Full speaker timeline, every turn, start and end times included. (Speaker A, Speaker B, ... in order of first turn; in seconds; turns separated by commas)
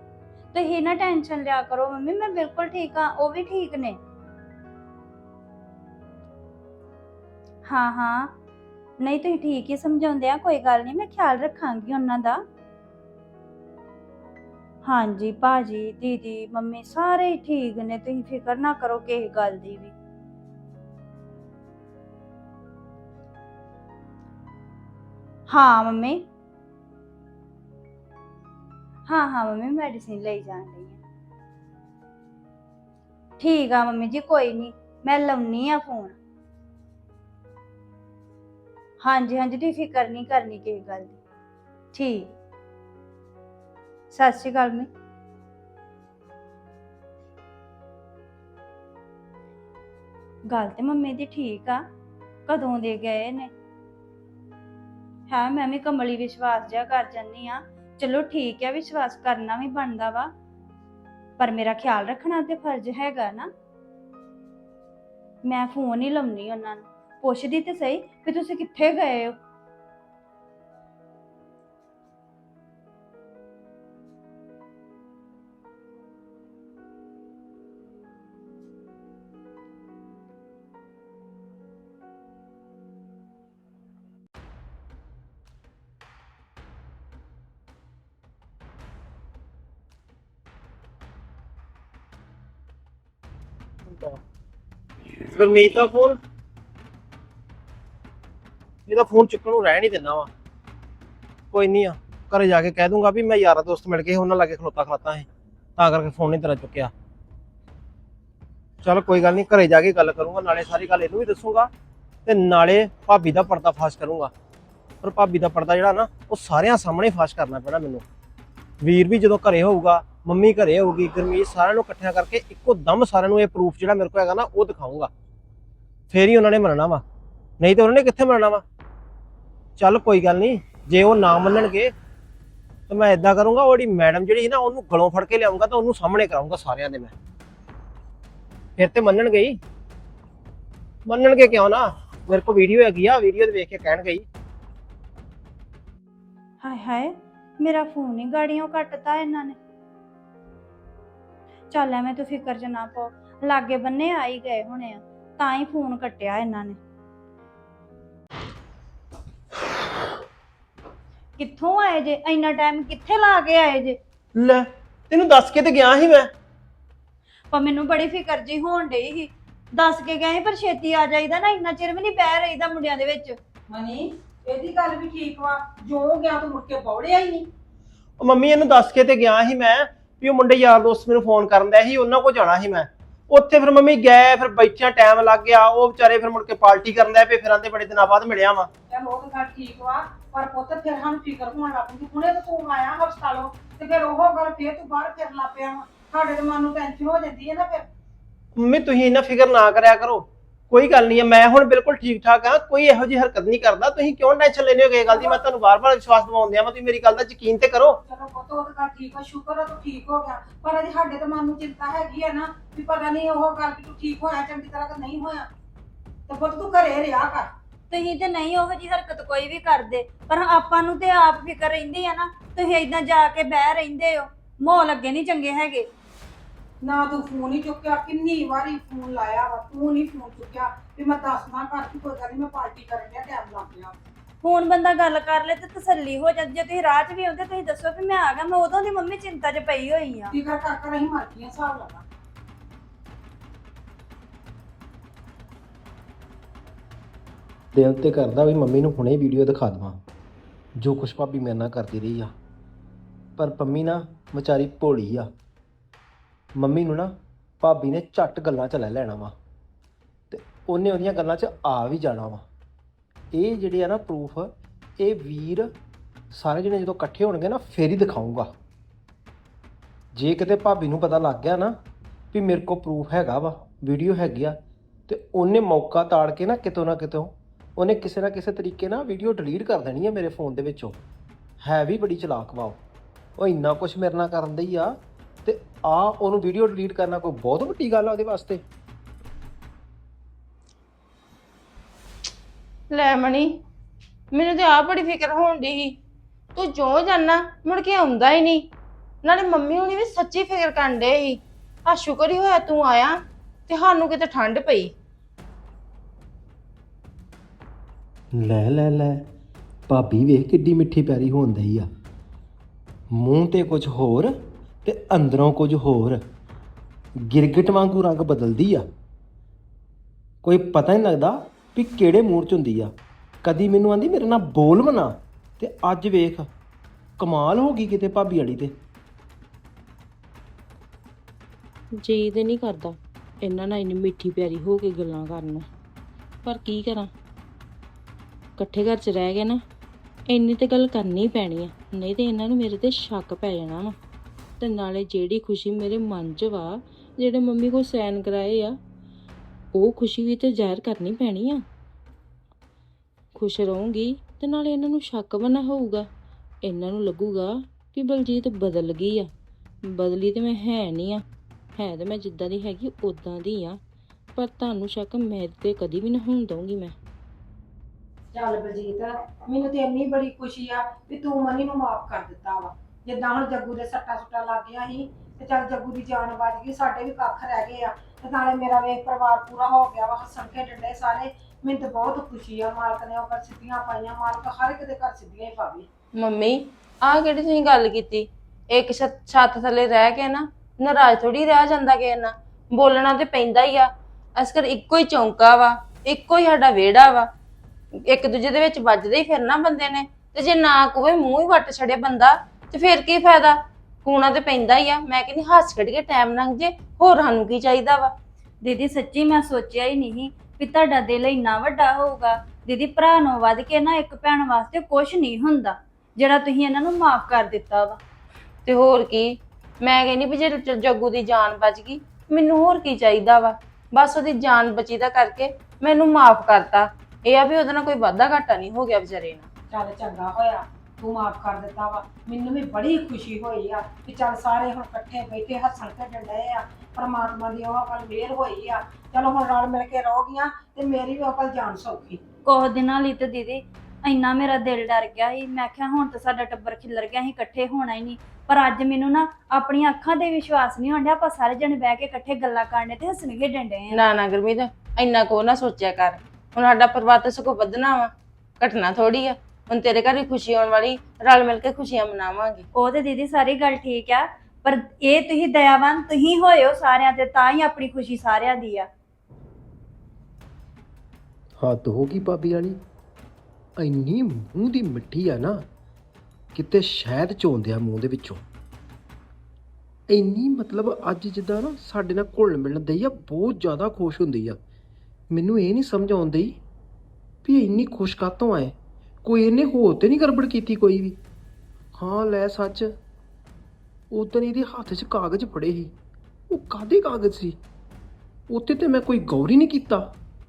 Speaker A: 0.5-4.0, Speaker A: 7.6-8.3, Speaker A: 9.0-12.4, Speaker A: 14.8-19.9, Speaker A: 25.5-26.2, Speaker A: 29.1-31.0, Speaker A: 33.4-36.2, Speaker A: 39.0-41.2, Speaker A: 41.9-42.3, Speaker A: 44.1-44.9, Speaker A: 50.5-51.8, Speaker A: 52.5-53.5, Speaker A: 55.3-60.3, Speaker A: 61.4-63.5, Speaker A: 65.4-69.3, Speaker B: 93.9-94.2, Speaker B: 95.3-96.2, Speaker B: 98.9-100.3, Speaker B: 101.5-105.3, Speaker B: 105.8-106.9, Speaker B: 108.8-111.7, Speaker B: 112.2-114.3, Speaker B: 115.0-118.0, Speaker B: 118.8-125.1, Speaker B: 126.1-127.0, Speaker B: 127.6-128.6, Speaker B: 129.8-131.9, Speaker B: 132.9-137.1, Speaker B: 138.8-139.6, Speaker B: 141.1-144.2, Speaker A: 146.6-149.6, Speaker A: 151.7-156.8, Speaker A: 161.4-164.0, Speaker B: 164.3-166.3, Speaker A: 167.5-173.3, Speaker C: 173.7-177.5, Speaker B: 178.2-188.7, Speaker C: 188.9-197.8, Speaker B: 198.6-208.0, Speaker C: 205.1-205.4, Speaker C: 208.1-215.5, Speaker C: 216.3-217.5, Speaker A: 217.9-225.8, Speaker C: 226.8-233.9, Speaker A: 234.4-240.3, Speaker C: 240.4-242.0, Speaker D: 247.7-250.0, Speaker D: 250.8-252.3, Speaker D: 253.4-255.3, Speaker D: 256.6-259.3, Speaker D: 260.3-262.5, Speaker D: 263.3-265.7, Speaker D: 266.3-268.5, Speaker D: 270.1-271.8, Speaker D: 272.3-274.6, Speaker D: 275.1-281.0, Speaker D: 281.6-282.8, Speaker D: 283.4-284.9, Speaker D: 285.4-288.6, Speaker E: 292.9-293.5, Speaker E: 294.3-295.9, Speaker E: 296.5-298.6, Speaker E: 299.2-303.2, Speaker E: 303.7-304.9, Speaker D: 308.3-309.2, Speaker D: 309.9-311.9, Speaker D: 313.1-316.2, Speaker D: 317.2-318.8, Speaker D: 320.4-322.9, Speaker D: 323.4-326.5, Speaker D: 327.2-328.7, Speaker E: 332.0-335.7, Speaker E: 336.4-337.1, Speaker E: 338.6-339.6, Speaker E: 340.3-343.9, Speaker E: 344.6-348.8, Speaker E: 349.8-351.6, Speaker E: 353.3-356.1, Speaker E: 356.6-359.3, Speaker E: 359.9-361.2, Speaker E: 361.8-363.8, Speaker E: 364.4-366.9, Speaker C: 368.3-385.9, Speaker E: 386.2-397.3, Speaker E: 398.1-408.1, Speaker A: 408.6-418.0, Speaker E: 418.6-429.5, Speaker C: 429.7-442.2, Speaker A: 442.4-454.0, Speaker E: 453.9-462.6, Speaker A: 462.7-468.9, Speaker D: 471.6-472.8, Speaker D: 473.8-475.6, Speaker D: 476.5-478.4, Speaker D: 480.1-484.6, Speaker D: 485.3-486.6, Speaker D: 487.4-491.2, Speaker D: 492.0-492.9, Speaker D: 494.1-495.9, Speaker D: 496.5-497.6, Speaker D: 498.5-500.1